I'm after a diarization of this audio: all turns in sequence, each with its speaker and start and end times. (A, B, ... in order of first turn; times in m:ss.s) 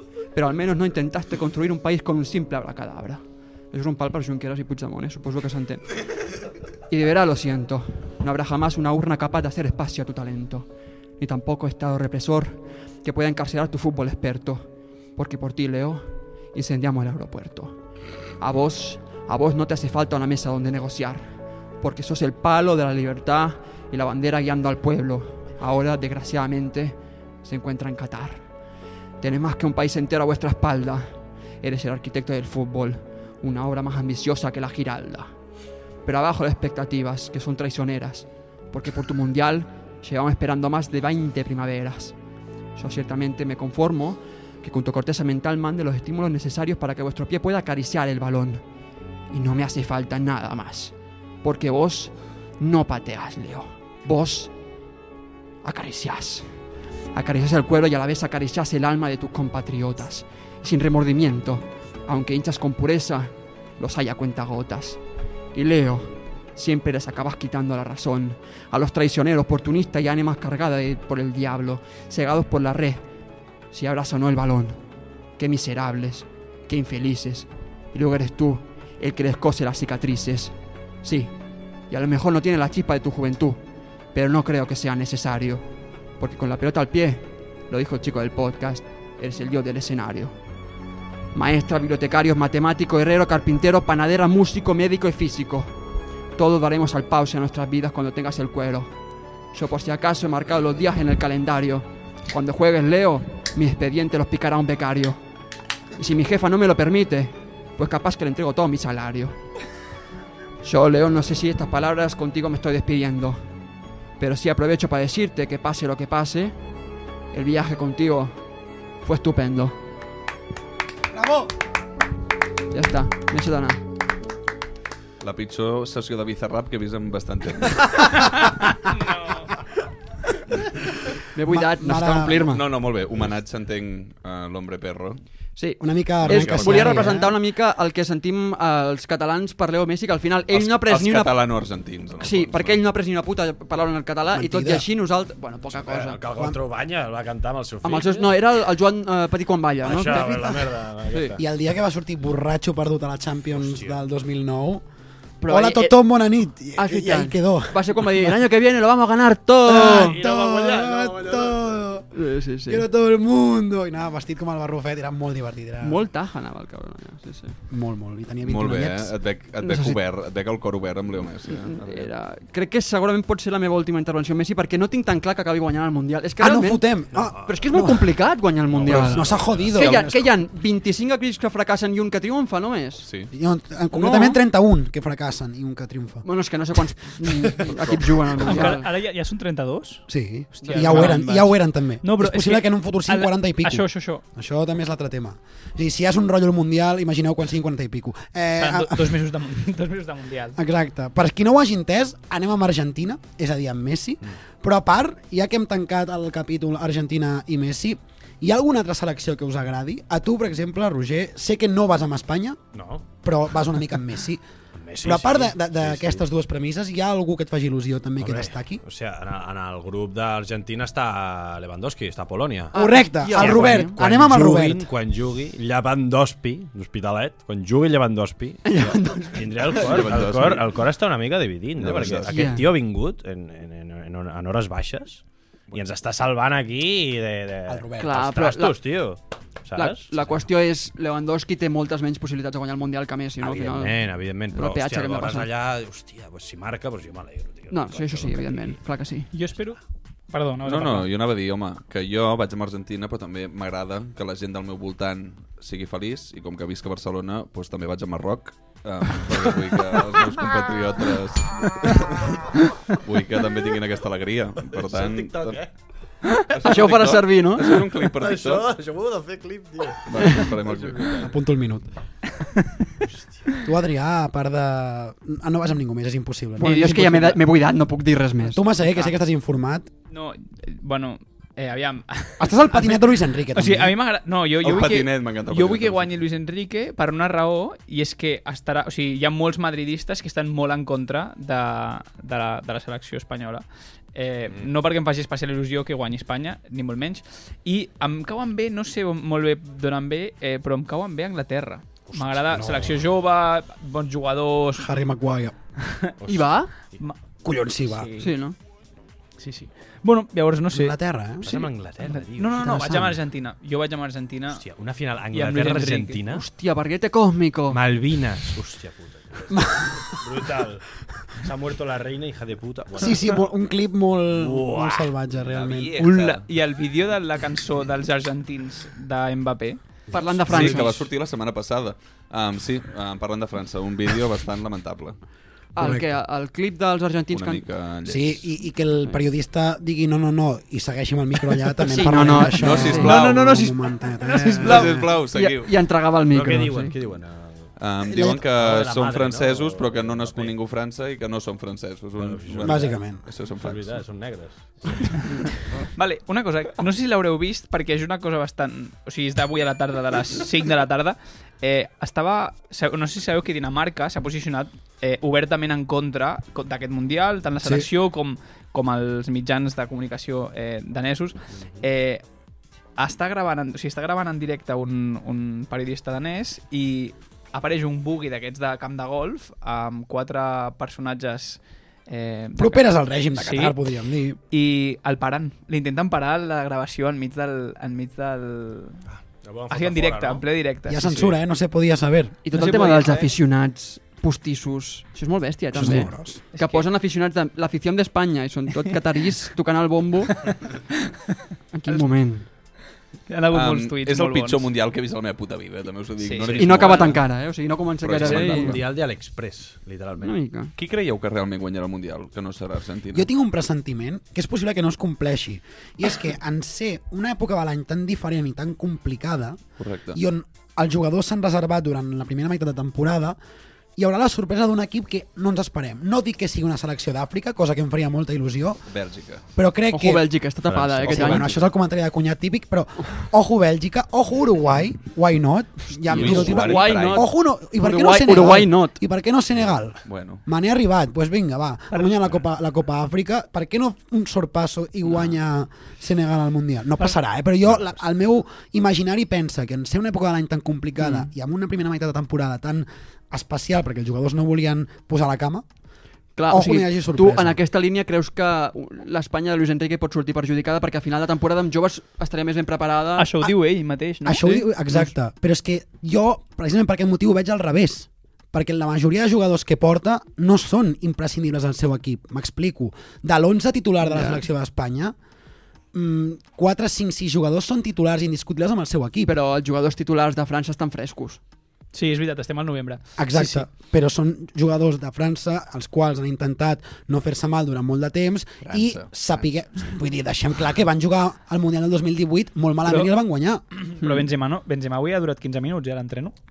0:00.3-0:05.8 A
0:06.9-0:10.7 A
0:11.2-0:17.8 A
0:18.4-0:21.3 A
0:21.8-0:28.4 A
0:29.2-0:35.3 A
0:36.0-0:42.2 A
0:42.8-0:48.6 A
0:49.3-0:54.5 A
0:55.6-0:56.5 A
0:57.1-1:05.0 A
1:05.5-1:13.0 A
1:13.7-1:14.8 A
1:15.4-1:21.3 A
1:21.9-1:23.6 A
1:24.1-1:25.6 A
1:26.2-1:30.3 A
1:31.3-1:35.7 A
1:36.4-1:38.9 A
1:39.5-1:45.2 A
1:46.0-1:49.4 A
1:50.6-1:53.4 A
1:54.2-1:56.6 A
1:57.3-1:58.4 A
1:59.0-1:59.8 A
2:01.1-2:01.5 B
2:02.7-2:03.8 A
2:05.2-2:08.5 C
2:11.3-2:12.6 A
2:11.5-2:12.5 B
2:12.4-2:15.2 C
2:15.6-2:21.3 A
2:15.8-2:17.4 B
2:16.2-2:17.1 C
2:20.5-2:22.8 C
2:22.2-2:26.2 A
2:24.3-2:24.9 B
2:25.7-2:28.3 D
2:26.3-2:26.6 B
2:27.8-2:31.4 A
2:29.8-2:31.4 D
2:31.4-2:34.8 B
2:33.5-2:34.0 D
2:35.4-2:36.0 A
2:35.5-2:38.4 B
2:36.8-2:40.2 A
2:39.6-2:42.1 B
2:39.7-2:41.8 D
2:42.1-2:42.8 A
2:42.7-2:46.0 B
2:45.8-2:47.6 A
2:47.7-2:49.1 B
2:48.4-2:52.1 C
2:49.6-2:50.0 A
2:51.5-3:03.0 A
2:56.4-2:58.1 B
2:57.1-2:57.5 D
2:58.7-3:00.1 D
2:58.8-3:00.3 B
3:03.0-3:03.3 C
3:03.3-3:06.2 B
3:03.9-3:04.4 A
3:06.2-3:08.9 A
3:08.4-3:14.2 E
3:10.1-3:19.2 B
3:10.6-3:11.3 A
3:18.6-3:20.6 E
3:20.6-3:32.6 B
3:32.7-3:33.0 D
3:33.2-3:34.4 B
3:34.8-3:36.2 D
3:35.0-3:38.8 B
3:38.2-3:42.7 D
3:42.7-3:44.0 A
3:42.7-3:44.9 B
3:43.3-4:00.4 D
3:48.6-3:49.8 A
3:49.7-3:50.7 C
3:51.8-3:52.6 C
3:52.3-3:52.7 A
3:57.7-3:58.2 B
3:58.0-3:58.8 A
3:59.7-4:05.5 A
4:03.4-4:08.8 D
4:07.7-4:09.3 A
4:09.3-4:09.8 E
4:10.3-4:11.1 E
4:10.6-4:22.2 C
4:22.9-4:25.6 C
4:24.7-4:25.7 D
4:26.5-4:28.7 C
4:26.6-4:27.7 A
4:28.2-4:31.3 D
4:30.0-4:31.3 C
4:31.2-4:31.9 B
4:33.0-4:33.5 D
4:33.6-4:37.4 B
4:36.6-4:38.6 A
4:38.5-4:39.9 B
4:40.1-5:04.9 E
4:42.4-4:43.9 B
4:44.6-4:46.1 C
5:02.1-5:02.9 D
5:02.5-5:02.9 B
5:04.8-5:05.5 B
5:05.8-5:06.1 E
5:06.2-5:07.0 D
5:06.3-5:06.7 A
5:07.4-5:08.1 B
5:07.9-5:08.3 E
5:08.2-5:08.6 A
5:09.4-5:14.6 E
5:10.7-5:11.5 B
5:11.4-5:13.1 D
5:12.6-5:13.2 B
5:14.5-5:16.4 D
5:15.3-5:16.2 E
5:16.3-5:17.8 A
5:17.7-5:23.5 D
5:19.5-5:20.0 B
5:23.0-5:26.0 B
5:24.3-5:25.7 D
5:25.5-5:26.4 C
5:26.0-5:29.8 E
5:30.1-5:31.1 A
5:30.5-5:35.2 C
5:35.7-5:37.6 A
5:35.8-5:36.0 B
5:37.3-5:38.5 C
5:38.0-5:45.1 B
5:41.8-5:43.6 A
5:42.5-5:43.7 C
5:44.5-5:45.7 C
5:44.6-5:46.9 A
5:46.3-5:50.6 D
5:47.8-5:54.0 C
5:48.1-5:48.4 B
5:52.2-5:55.3 D
5:52.6-5:53.2 B
5:56.0-6:12.2 E
6:13.0-6:23.8 E
6:22.6-6:24.4 B
6:24.5-6:29.0 E
6:29.1-6:30.4 D
6:29.7-6:31.3 E
6:30.9-6:32.4 B
6:32.4-6:40.4 A
6:32.5-6:33.3 E
6:35.7-6:36.4 B
6:36.5-6:36.9 E
6:40.5-6:40.9 E
6:41.7-6:42.4 A
6:43.3-6:44.7 E
6:43.5-6:47.2 C
6:46.2-6:47.0 E
6:46.5-6:47.0 D
6:46.6-6:48.8 A
6:48.0-6:48.8 C
6:48.2-6:50.4 D
6:50.2-6:50.7 A
6:50.8-6:53.3 C
6:53.1-7:03.4 B
6:59.8-7:00.2 C
7:04.0-7:08.8 B
7:08.8-7:09.4 C
7:09.5-7:10.3 B
7:09.9-7:11.5 A
7:10.7-7:11.5 D
7:11.1-7:35.6 B
7:11.1-7:11.7 C
7:16.0-7:17.3 C
7:16.1-7:19.0 A
7:20.0-7:20.4 C
7:31.0-7:31.3 A
7:36.4-7:43.3 A
7:36.5-7:37.6 B
7:43.2-7:44.6 E
7:44.2-7:55.1 B
7:44.4-7:45.1 A
7:54.0-7:54.4 A
7:55.9-7:59.3 B
7:59.2-8:01.4 A
8:01.9-8:03.6 E
8:03.2-8:13.6 B
8:08.6-8:09.1 C
8:12.8-8:13.1 E
8:13.7-8:16.3 E